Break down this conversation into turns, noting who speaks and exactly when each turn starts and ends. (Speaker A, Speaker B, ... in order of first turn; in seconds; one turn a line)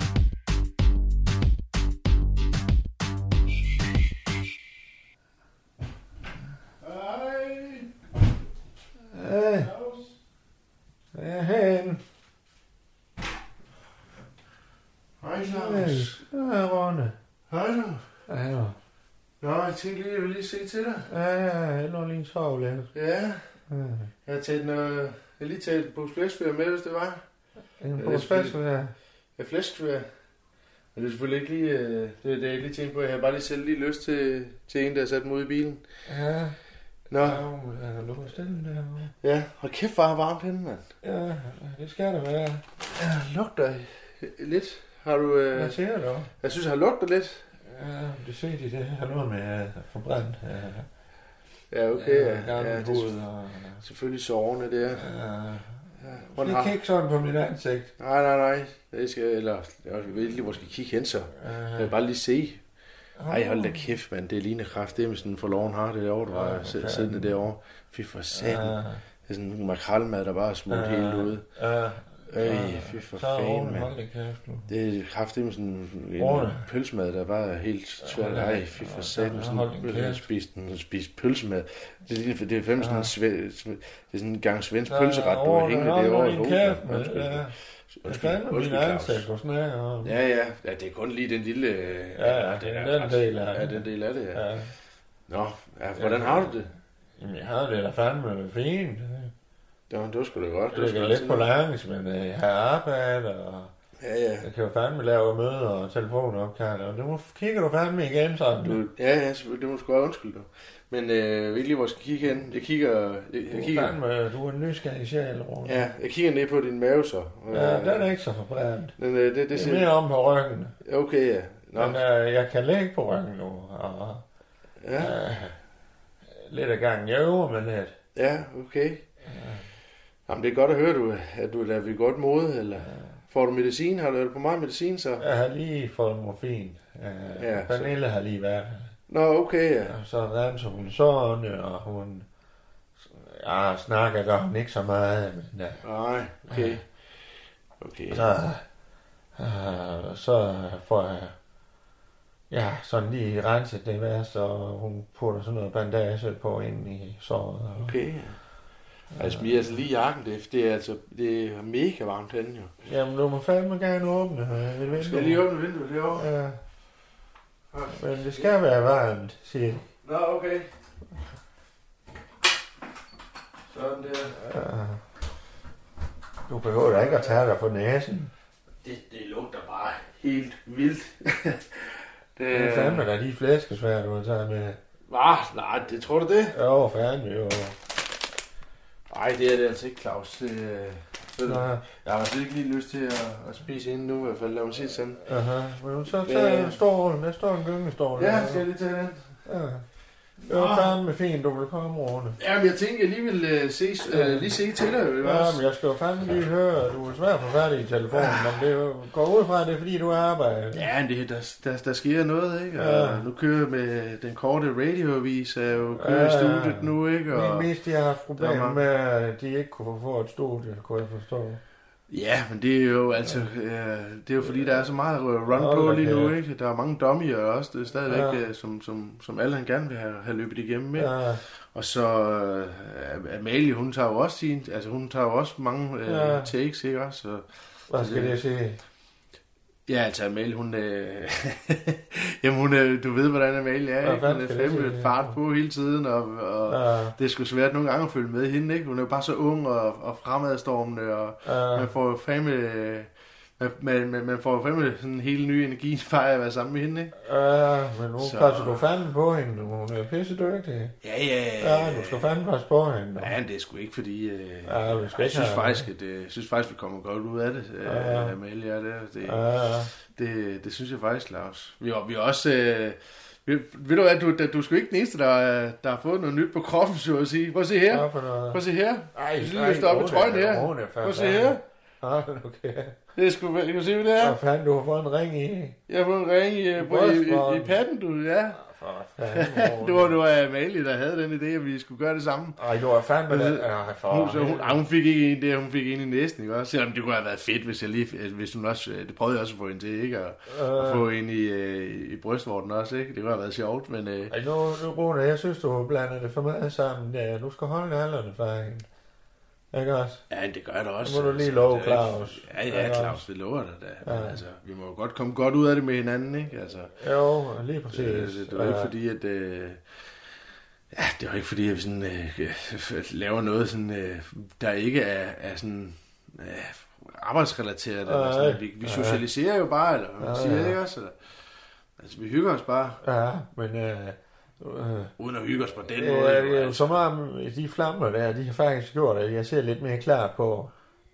Speaker A: 6.8-7.9
Speaker B: 9.1-9.7
Speaker A: 9.6-10.2
Speaker B: 11.1-12.0
Speaker A: 15.2-16.2
Speaker B: 15.4-17.1
Speaker A: 17.5-18.1
Speaker B: 18.3-18.8
Speaker A: 19.4-21.1
Speaker B: 21.1-22.9
Speaker A: 22.9-23.5
Speaker B: 23.7-24.1
Speaker A: 24.2-27.2
Speaker B: 27.8-28.9
Speaker A: 27.9-28.6
Speaker A: 29.4-30.1
Speaker A: 30.9-35.8
Speaker B: 36.1-36.6
Speaker A: 37.1-37.4
Speaker B: 37.2-39.1
Speaker A: 39.2-40.9
Speaker B: 41.0-42.6
Speaker A: 42.9-45.8
Speaker B: 45.5-46.3
Speaker A: 46.4-47.5
Speaker B: 47.6-50.9
Speaker A: 51.7-53.2
Speaker B: 51.9-53.8
Speaker A: 53.8-55.0
Speaker B: 54.9-55.8
Speaker A: 56.0-56.7
Speaker B: 56.3-57.9
Speaker A: 58.0-62.6
Speaker B: 61.4-61.9
Speaker B: 63.2-63.9
Speaker A: 63.3-71.4
Speaker B: 66.3-67.4
Speaker B: 68.3-69.0
Speaker B: 70.7-74.7
Speaker A: 72.3-73.9
Speaker A: 74.7-89.2
Speaker B: 76.2-76.7
Speaker B: 78.0-80.2
Speaker B: 82.8-83.1
Speaker B: 84.9-87.5
Speaker B: 88.0-90.1
Speaker A: 90.0-94.4
Speaker B: 92.2-94.7
Speaker A: 95.3-96.7
Speaker B: 96.0-96.5
Speaker B: 97.2-99.3
Speaker A: 99.9-101.5
Speaker B: 100.7-103.7
Speaker A: 104.0-104.5
Speaker B: 104.4-108.9
Speaker A: 108.8-114.0
Speaker B: 113.5-115.8
Speaker A: 115.6-118.1
Speaker B: 117.5-118.9
Speaker A: 119.0-119.9
Speaker B: 119.5-120.8
Speaker A: 120.8-122.0
Speaker B: 121.7-124.2
Speaker A: 124.8-125.2
Speaker B: 125.0-125.5
Speaker B: 126.3-128.0
Speaker A: 128.1-129.0
Speaker B: 129.2-129.7
Speaker A: 130.3-135.2
Speaker B: 135.2-138.9
Speaker A: 137.4-137.9
Speaker A: 139.1-140.0
Speaker B: 139.9-142.2
Speaker B: 143.0-145.8
Speaker A: 145.8-146.8
Speaker B: 146.5-146.8
Speaker A: 147.8-148.3
Speaker B: 148.1-148.6
Speaker B: 149.4-151.3
Speaker B: 152.5-158.0
Speaker A: 157.8-158.4
Speaker B: 159.1-159.7
Speaker A: 159.2-162.7
Speaker B: 162.8-165.5
Speaker A: 164.9-166.3
Speaker B: 166.1-166.6
Speaker A: 167.7-168.5
Speaker B: 167.9-169.9
Speaker A: 170.0-170.7
Speaker A: 173.7-174.4
Speaker B: 174.3-175.0
Speaker B: 176.5-178.3
Speaker A: 176.8-177.4
Speaker A: 178.8-183.1
Speaker B: 182.5-184.8
Speaker A: 185.1-186.6
Speaker B: 186.5-187.8
Speaker A: 189.1-195.2
Speaker B: 191.4-191.8
Speaker B: 195.2-198.6
Speaker A: 196.2-196.8
Speaker A: 198.2-199.4
Speaker B: 199.4-199.8
Speaker B: 200.4-202.4
Speaker A: 200.5-200.9
Speaker A: 202.4-205.6
Speaker B: 204.1-204.6
Speaker B: 205.2-210.8
Speaker A: 208.1-208.6
Speaker A: 210.7-217.7
Speaker B: 212.7-213.2
Speaker B: 216.0-221.6
Speaker A: 218.4-218.8
Speaker A: 222.1-238.4
Speaker B: 225.5-226.3
Speaker B: 228.1-228.4
Speaker B: 231.0-231.4
Speaker B: 236.1-236.5
Speaker B: 237.9-238.8
Speaker A: 239.9-257.2
Speaker B: 244.0-245.4
Speaker B: 246.7-247.2
Speaker B: 251.4-251.9
Speaker B: 257.1-261.0
Speaker A: 258.2-258.9
Speaker A: 261.0-262.3
Speaker B: 261.6-263.4
Speaker A: 263.2-281.6
Speaker B: 264.6-265.9
Speaker B: 267.8-268.4
Speaker B: 269.2-269.9
Speaker B: 277.9-278.6
Speaker B: 279.1-283.0
Speaker A: 283.1-284.4
Speaker B: 284.2-285.8
Speaker A: 285.9-288.6
Speaker B: 286.8-287.8
Speaker B: 288.6-290.2
Speaker A: 289.3-292.6
Speaker B: 292.6-294.8
Speaker A: 293.3-304.3
Speaker B: 300.5-301.1
Speaker B: 304.3-308.9
Speaker B: 309.7-310.2
Speaker A: 310.3-316.9
Speaker B: 311.0-313.2
Speaker B: 314.0-314.4
Speaker B: 317.0-318.9
Speaker A: 317.9-319.8
Speaker A: 320.9-331.2
Speaker B: 328.1-329.2
Speaker B: 330.2-330.8
Speaker A: 332.0-333.0
Speaker B: 333.0-335.1
Speaker A: 335.2-336.9
Speaker B: 335.9-340.7